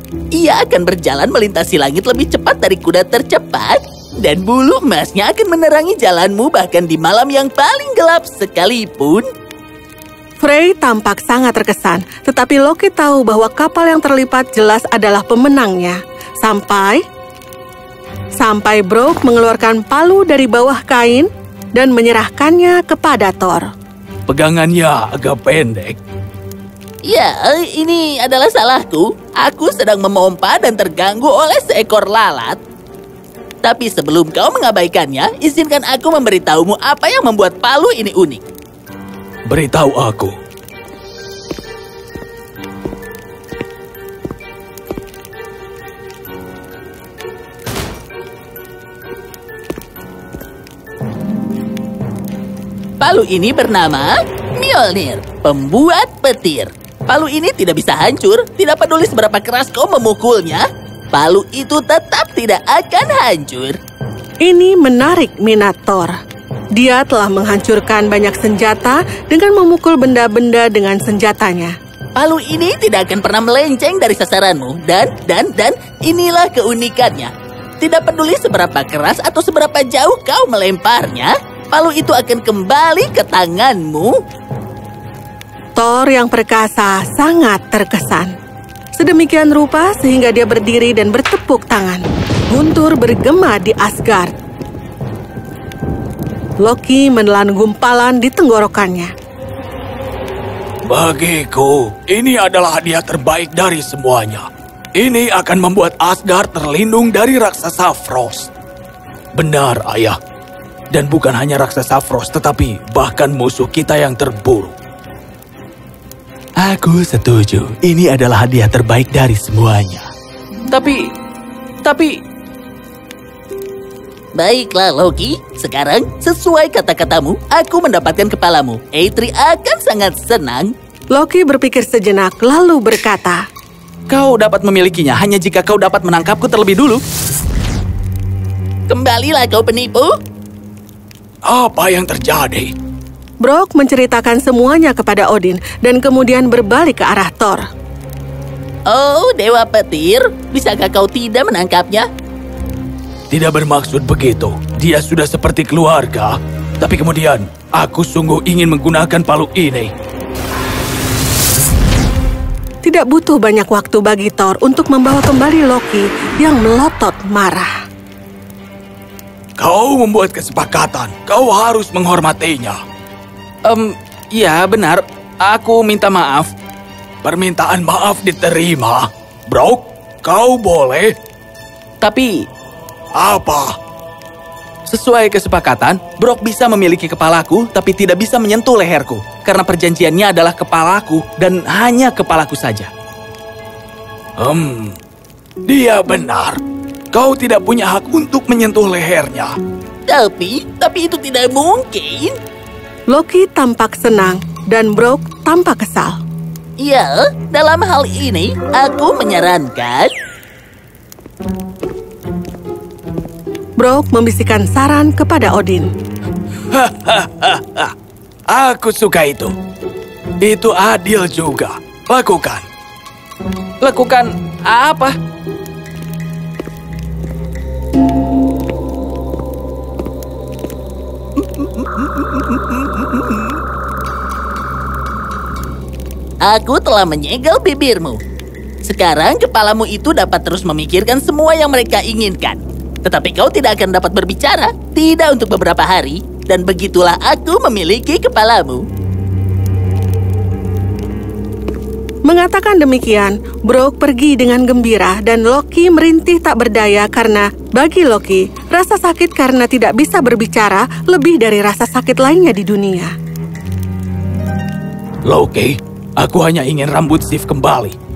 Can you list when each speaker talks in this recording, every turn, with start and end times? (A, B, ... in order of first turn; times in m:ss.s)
0:00.4-0:09.2 A
0:10.4-0:17.0 B
0:18.4-0:23.7 B
0:24.3-0:26.0 C
0:27.0-0:32.6 A
0:33.6-0:38.4 A
0:39.5-0:40.3 C
0:53.0-1:03.8 A
1:04.4-1:06.1 B
1:06.8-1:11.8 B
1:12.2-1:24.1 A
1:25.8-1:28.3 B
1:29.0-1:34.3 B
1:36.6-1:39.1 B
1:40.9-1:44.5 C
1:45.0-1:48.5 C
1:49.4-1:50.2 C
1:50.9-1:54.8 C
1:56.6-2:00.1 C
2:00.7-2:01.0 C
2:01.8-2:02.1 C
2:04.4-2:10.7 A
2:11.1-2:13.4 B
2:14.1-2:17.0 C
2:18.9-2:20.1 A
2:21.5-2:22.7 C
2:23.4-2:27.6 B
2:28.9-2:32.0 A
2:33.3-2:39.9 C
2:42.8-2:47.7 B
2:49.6-2:52.8 C
2:53.6-2:56.5 C
2:57.2-3:01.1 C
3:02.0-3:02.3 C
3:03.2-3:03.7 C
3:04.9-3:12.9 C
3:14.4-3:15.0 C
3:15.7-3:16.6 C
3:17.1-3:19.5 C
3:20.1-3:22.3 A
3:23.1-3:26.2 B
3:26.8-3:30.1 A
3:33.8-3:35.9 B
3:36.7-3:37.9 C
3:38.5-3:39.5 C
3:40.4-3:42.6 C
3:43.8-3:45.2 C
3:51.4-3:53.6 C
3:56.4-3:58.2 A
3:58.8-4:08.8 A
4:12.2-4:23.1 B
4:25.3-4:28.0 C